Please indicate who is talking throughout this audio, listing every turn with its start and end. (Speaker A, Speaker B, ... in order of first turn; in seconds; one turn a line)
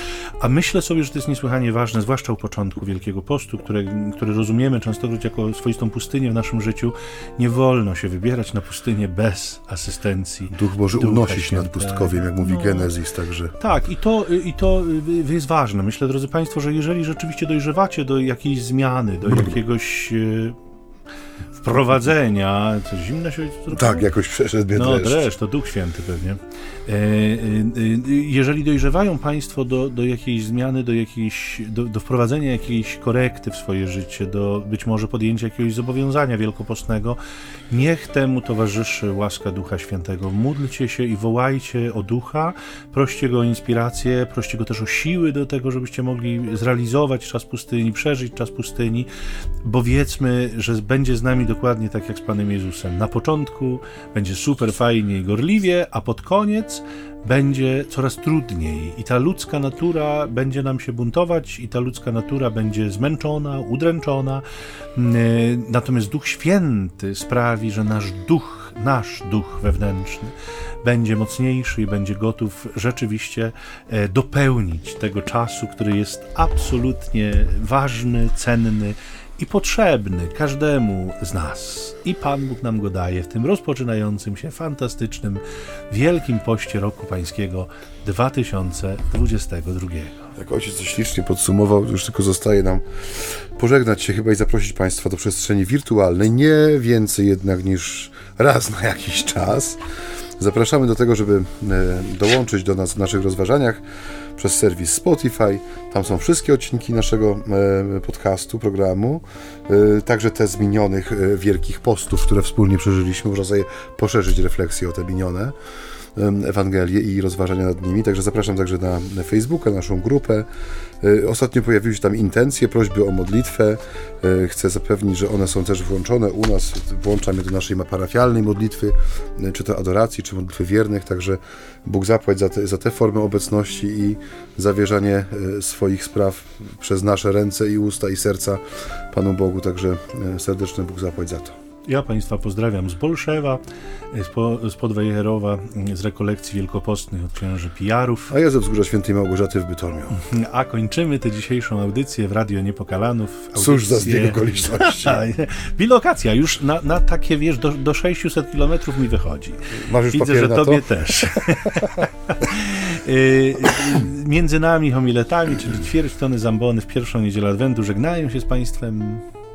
Speaker A: 0.4-12.9
Speaker B: 10.5-13.5
Speaker A: 13.6-20.6
Speaker B: 19.3-19.6
Speaker A: 21.6-24.1
Speaker B: 23.7-25.3
Speaker A: 24.7-37.2
Speaker A: 37.7-49.1
Speaker A: 49.6-64.4
Speaker A: 65.0-90.3
Speaker B: 90.4-92.8
Speaker B: 93.5-99.8
Speaker B: 100.4-103.8
Speaker B: 104.4-115.5
Speaker B: 116.2-120.5
Speaker B: 121.0-138.6
Speaker B: 139.1-141.5
Speaker A: 141.9-148.3
Speaker B: 148.3-150.2
Speaker A: 150.1-169.2
Speaker B: 153.6-155.2
Speaker B: 159.8-160.8